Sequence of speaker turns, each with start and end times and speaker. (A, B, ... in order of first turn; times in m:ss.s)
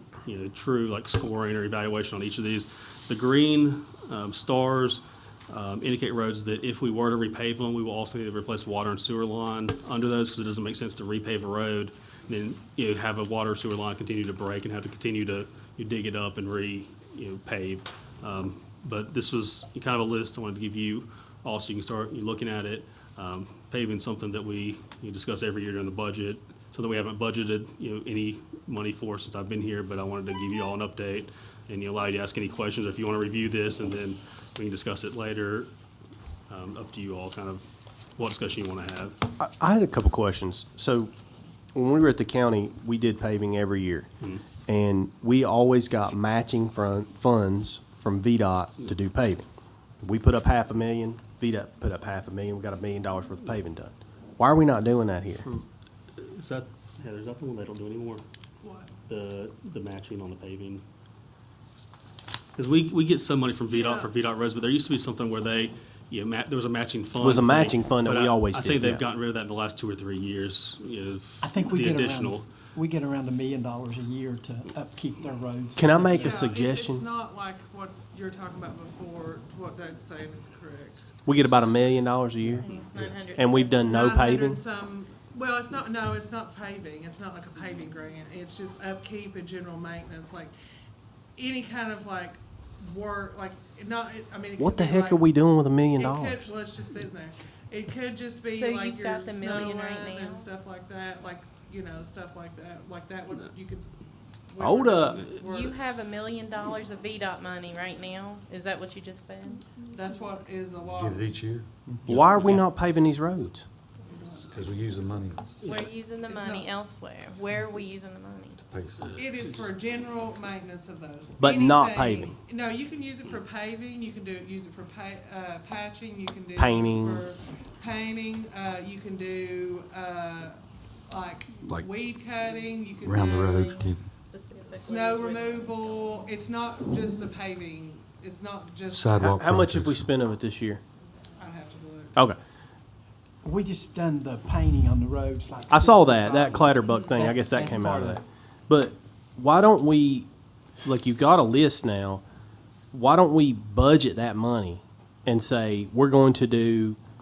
0:00.2-0:35.7 A
0:36.5-0:37.7 A
0:38.2-0:39.2 A
0:39.4-0:41.1 B
0:41.7-0:44.1 B
0:44.7-0:49.4 B
0:50.0-0:55.4 B
0:56.2-0:58.2 A
0:58.6-0:58.9 C
0:59.1-1:00.8 A
1:02.6-1:12.4 A
1:03.7-1:04.1 C
1:07.2-1:09.0 B
1:11.4-1:16.5 D
1:15.8-1:17.1 B
1:16.2-1:21.1 C
1:21.3-1:22.7 B
1:22.6-1:23.9 E
1:22.9-1:23.2 F
1:23.3-1:24.6 B
1:23.9-1:30.5 C
1:31.4-1:35.2 C
1:34.6-1:36.5 B
1:36.0-1:43.9 C
1:38.5-1:40.5 E
1:44.5-1:45.7 C
1:44.6-1:45.2 B
1:45.4-1:50.1 E
1:49.9-1:51.3 C
1:50.9-1:51.7 F
1:52.1-1:53.6 B
1:52.1-1:52.6 A
1:54.1-1:54.4 C
1:54.5-1:55.6 F
1:55.6-1:55.9 A
1:55.7-1:58.6 E
1:56.2-1:56.7 C
1:58.6-1:59.2 F
1:59.2-2:13.7 C
2:01.4-2:02.4 B
2:06.6-2:07.2 B
2:13.0-2:14.0 F
2:13.6-2:15.9 E
2:14.7-2:19.3 C
2:18.9-2:20.1 F
2:19.3-2:20.8 B
2:21.4-2:22.2 C
2:23.4-2:28.2 D
2:25.7-2:30.3 B
2:26.8-2:27.3 C
2:30.8-2:32.2 B
2:32.9-2:37.0 B